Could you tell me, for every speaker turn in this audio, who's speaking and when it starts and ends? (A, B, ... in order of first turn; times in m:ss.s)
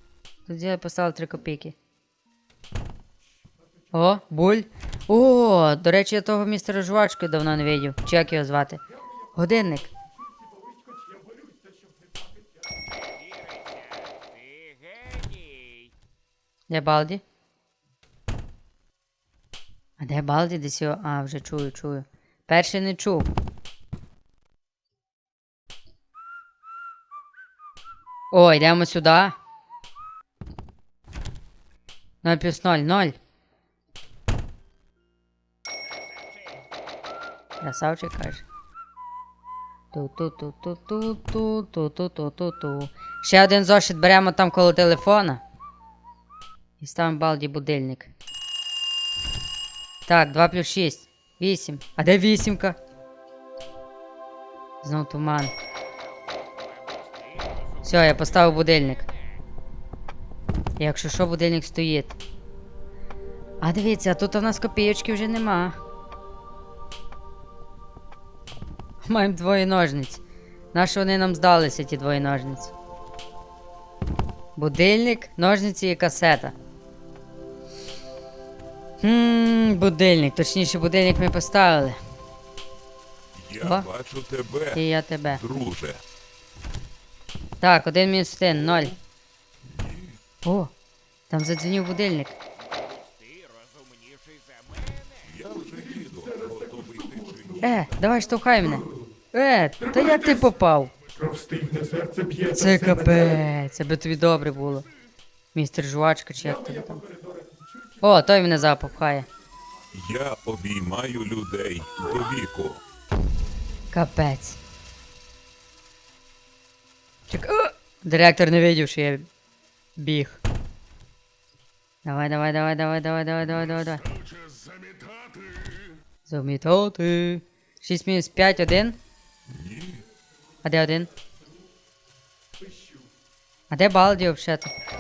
0:00.5-0:01.8 A
0:03.9-0:08.8 A
0:09.4-0:09.9 A
0:13.0-0:15.7 B
0:16.7-0:17.2 A
0:20.0-0:23.3 A
0:28.3-0:29.4 A
0:32.2-0:33.2 A
0:37.6-0:38.4 A
0:39.9-0:45.4 A
0:46.8-0:48.1 A
0:50.1-0:52.8 A
0:54.8-0:55.5 A
0:57.8-0:59.0 A
1:00.8-1:02.2 A
1:03.6-1:05.8 A
1:09.0-1:12.7 A
1:14.6-1:16.6 A
1:19.0-1:22.0 A
1:23.4-1:24.8 C
1:23.6-1:23.9 A
1:24.7-1:25.4 A
1:25.4-1:26.0 C
1:27.6-1:29.0 A
1:30.4-1:30.7 A
1:31.3-1:32.4 A
1:34.1-1:35.0 B
1:35.3-1:37.7 C
1:37.6-1:40.9 A
1:42.5-1:44.9 A
1:45.5-1:47.0 A
1:48.0-1:49.3 A
1:49.9-1:52.8 C
1:53.9-1:54.6 A
1:57.3-1:59.3 A
2:00.0-2:00.4 A
2:02.0-2:04.0 A
2:06.2-2:09.0 A
2:09.6-2:09.9 C
2:10.6-2:11.1 A
2:13.7-2:14.7 A